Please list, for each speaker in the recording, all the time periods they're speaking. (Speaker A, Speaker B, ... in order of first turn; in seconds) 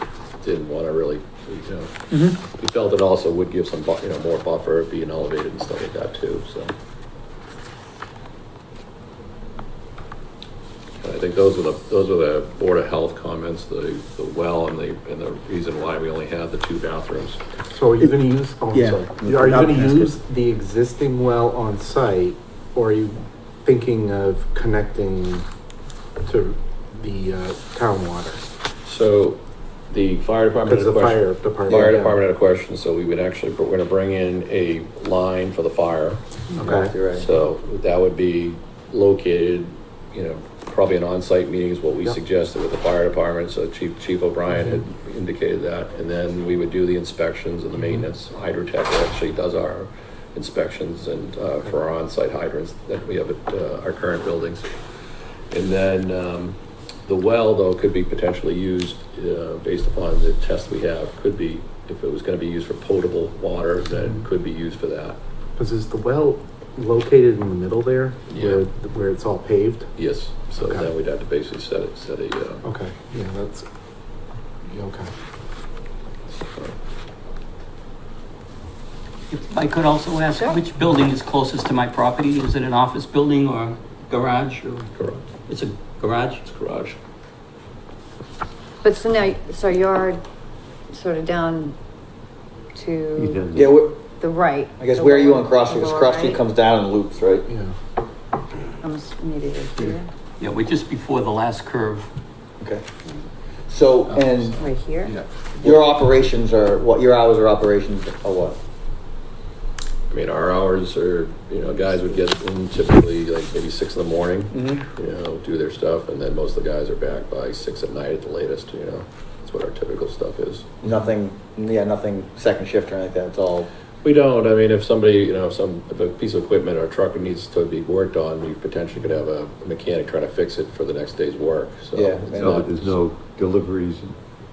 Speaker A: 0.4-6.7, 11.0-17.4, 28.8-36.2, 37.1-54.7, 55.5-65.2, 68.3-68.6, 70.0-72.7, 84.9-85.2, 86.4-87.0, 110.1-120.8, 124.0-132.8
Speaker B: 17.7-25.4, 26.2-28.4, 30.6-32.2, 36.5-37.0, 65.6-69.9, 70.5-70.9, 72.6-73.7, 74.7-75.1, 97.5-97.8, 104.2-105.8
Speaker C: 18.7-20.1, 36.6-37.3, 93.5-94.0, 94.8-97.5, 102.6-102.8, 103.7-104.6, 105.6-108.6, 114.5-114.8, 120.8-123.7, 131.9-132.6
Speaker D: 79.3-84.9, 85.5-86.4, 100.4-102.1
Speaker E: 88.8-90.2, 90.9-91.8, 92.8-93.5, 94.2-96.4, 98.8-100.1, 104.6-105.1
Speaker F: 93.2-93.8, 132.3-134.2